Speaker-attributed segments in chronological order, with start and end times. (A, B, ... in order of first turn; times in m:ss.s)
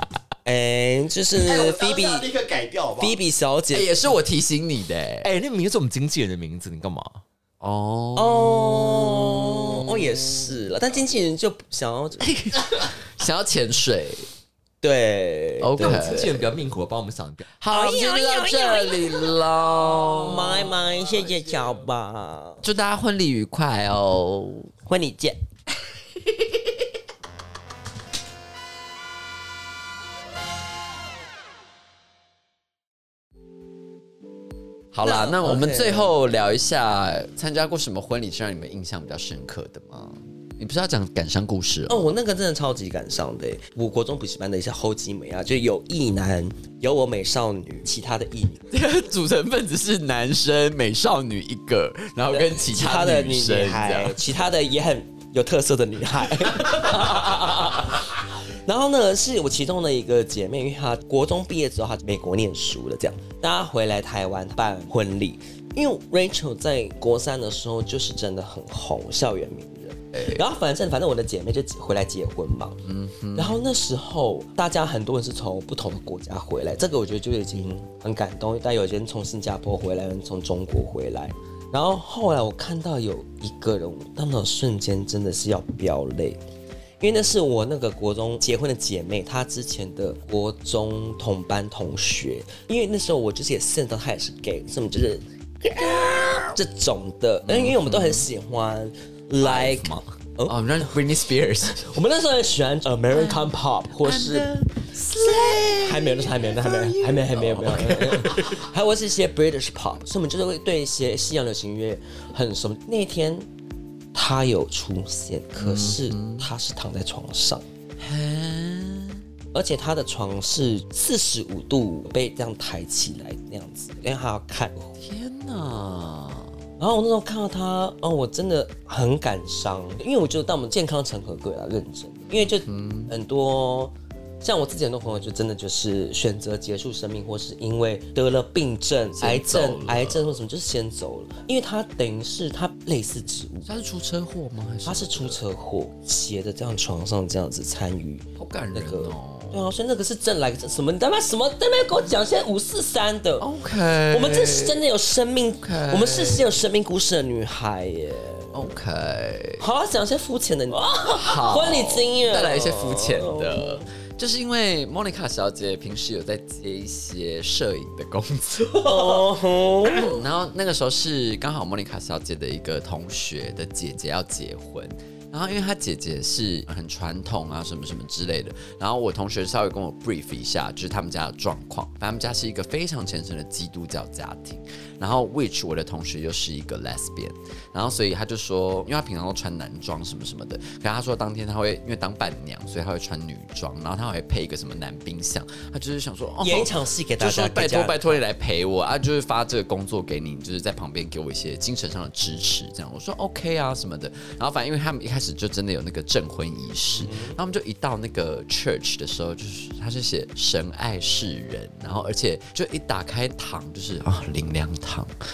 0:00.4-0:02.3 A
0:01.4-0:03.2 B
0:03.0-0:03.9 A
0:03.7-0:05.3 C
0:05.2-0:07.2 B
0:07.6-0:10.6 C
0:08.2-0:12.3 A
0:12.2-0:14.3 C
0:14.8-0:16.4 A
0:15.6-0:16.4 C
0:15.8-0:17.4 B
0:17.6-0:20.8 C
0:17.7-0:22.6 A
0:22.6-0:24.7 C
0:24.8-0:25.4 A
0:34.9-0:42.1 C
0:35.0-0:36.1 A
0:41.9-0:48.7 A
0:48.7-0:54.3 C
0:52.3-1:26.4 A
0:56.7-0:57.0 C
1:12.9-1:13.6 C
1:27.0-1:40.9 A
1:35.9-1:36.6 C
1:37.4-1:38.3 C
1:39.4-1:41.9 C
1:41.7-1:44.5 A
1:43.1-1:48.6 C
1:45.2-1:53.5 A
1:54.1-1:57.7 A
1:55.6-1:56.5 C
1:58.0-1:59.2 C
1:59.5-2:04.9 A
2:05.0-2:06.5 C
2:06.8-2:23.7 A
2:12.3-2:13.1 C
2:19.2-2:20.4 C
2:23.7-2:25.5 C
2:24.8-2:33.5 A
2:28.4-2:29.6 C
2:33.4-2:34.8 C
2:34.1-2:38.6 A
2:35.6-2:36.6 C
2:38.5-2:39.6 C
2:39.6-2:43.9 A
2:41.1-2:49.3 C
2:48.8-2:50.2 A
2:49.8-3:35.1 C
3:16.4-3:18.1 A
3:26.9-3:27.4 A